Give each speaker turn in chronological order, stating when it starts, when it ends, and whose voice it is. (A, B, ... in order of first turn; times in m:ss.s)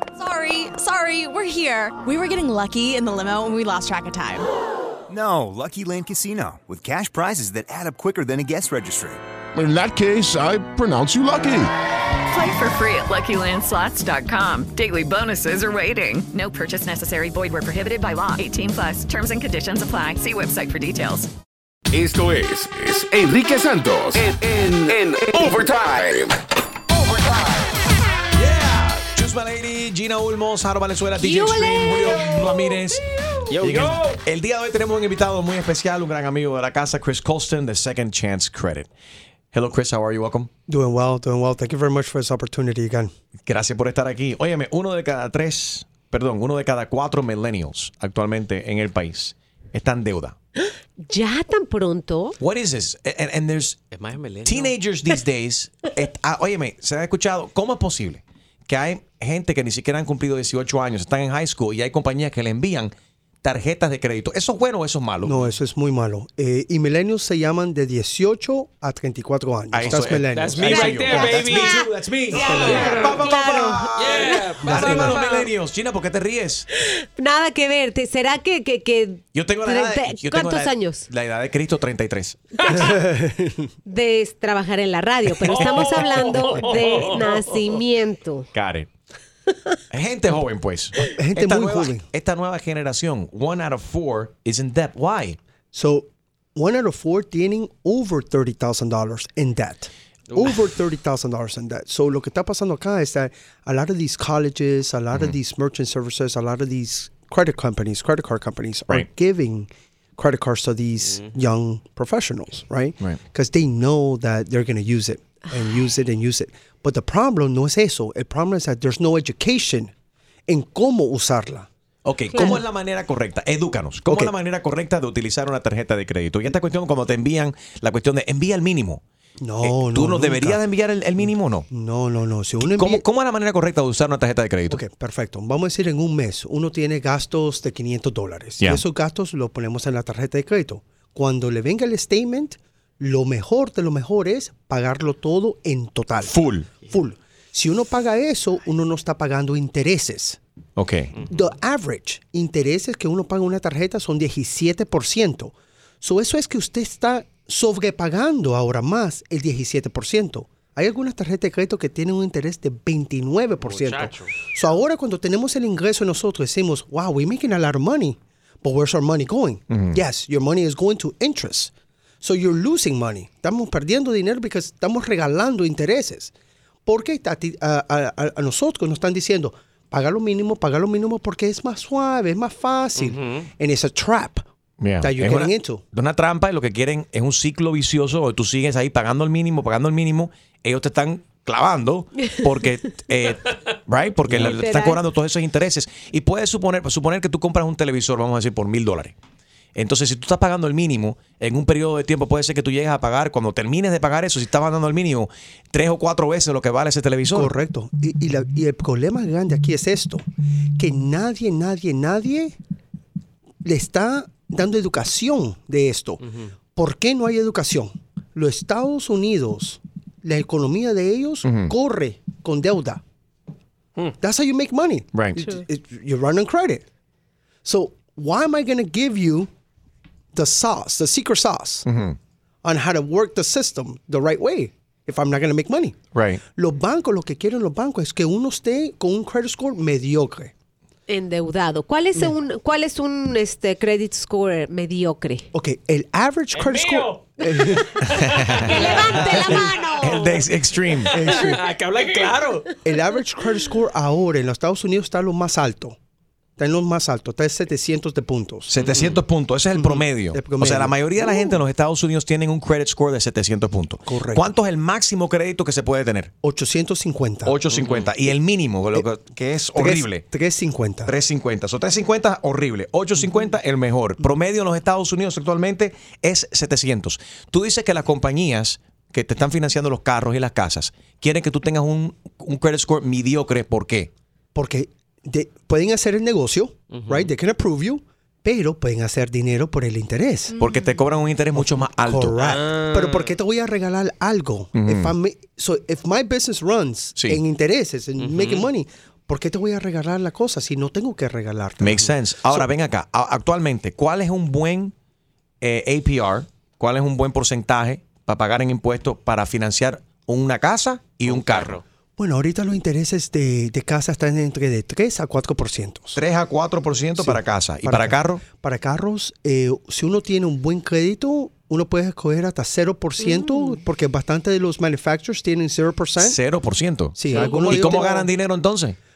0:00.2-0:04.5 A
0:05.1-0:09.2 B
0:09.5-0:11.7 C
0:12.3-0:21.3 D
0:23.2-0:25.5 E
0:28.3-0:33.0 F
0:31.2-0:33.5 G
0:33.5-0:38.9 F
0:39.5-0:40.5 F
0:40.7-0:43.1 H
0:43.4-0:50.3 F
0:50.6-0:52.4 G
0:52.4-0:53.8 F
0:53.9-0:54.7 I
0:54.4-1:02.9 F
1:03.4-1:05.5 F
1:05.2-1:11.4 H
1:09.7-1:16.6 F
1:10.3-1:12.5 I
1:10.6-1:14.5 G
1:12.4-1:13.0 H
1:14.1-1:15.4 I
1:14.7-1:15.2 E
1:17.2-1:21.1 G
1:19.3-1:22.4 F
1:22.6-1:23.0 G
1:22.8-1:23.7 H
1:23.8-1:28.5 G
1:28.5-1:28.9 F
1:29.9-1:35.4 F
1:31.1-1:32.1 H
1:35.7-1:59.9 H
1:51.1-1:51.4 I
2:00.5-2:01.7 H
2:02.0-2:09.0 F
2:02.3-2:02.6 H
2:04.0-2:04.3 H
2:09.4-2:10.6 H
2:09.6-2:11.7 F
2:11.2-2:13.0 H
2:12.7-2:14.8 F
2:14.7-2:30.4 H
2:26.2-2:26.7 F
2:30.8-2:31.1 F
2:31.3-2:56.3 H
2:43.6-2:44.3 I
2:49.7-2:50.0 F
2:56.8-3:04.4 H
3:03.0-3:03.5 I
3:04.8-3:19.1 F
3:05.0-3:05.8 H
3:14.4-3:15.0 G
3:19.7-3:27.5 F
3:27.3-3:30.2 H
3:30.8-3:32.6 H
3:33.6-3:36.2 H
3:36.7-3:43.0 H
3:41.4-3:41.7 F
3:44.2-3:46.8 H
3:45.1-3:45.4 F
3:47.6-3:49.5 H
3:50.3-3:51.8 H
3:51.8-3:52.2 F
3:52.6-4:00.5 H
3:56.1-3:56.4 F
4:01.1-4:05.4 G
4:05.5-4:09.7 H
4:06.6-4:07.1 I
4:08.0-4:11.2 F
4:08.6-4:10.4 G
4:11.1-4:11.6 H
4:11.4-4:12.7 I
4:12.8-4:16.0 H
4:16.6-4:18.7 H
4:18.7-4:26.3 F
4:18.8-4:19.1 I
4:19.7-4:21.6 H
4:24.1-4:24.5 H
4:26.4-4:27.6 H
4:27.4-4:30.2 F
4:27.8-4:28.0 I
4:29.7-4:31.1 H
4:31.0-4:44.1 F
4:44.5-4:50.6 H
4:46.9-4:47.3 I
4:50.6-4:52.8 F
4:51.5-5:02.7 H
4:54.7-4:55.1 F
4:58.2-4:58.6 I
5:01.8-5:04.9 F
5:05.6-5:11.8 F
5:11.2-5:11.8 I
5:12.2-5:16.2 H
5:16.1-5:18.4 F
5:17.2-5:26.4 H
5:23.2-5:23.8 G
5:26.2-5:29.0 F
5:27.1-5:28.3 H
5:27.3-5:27.5 G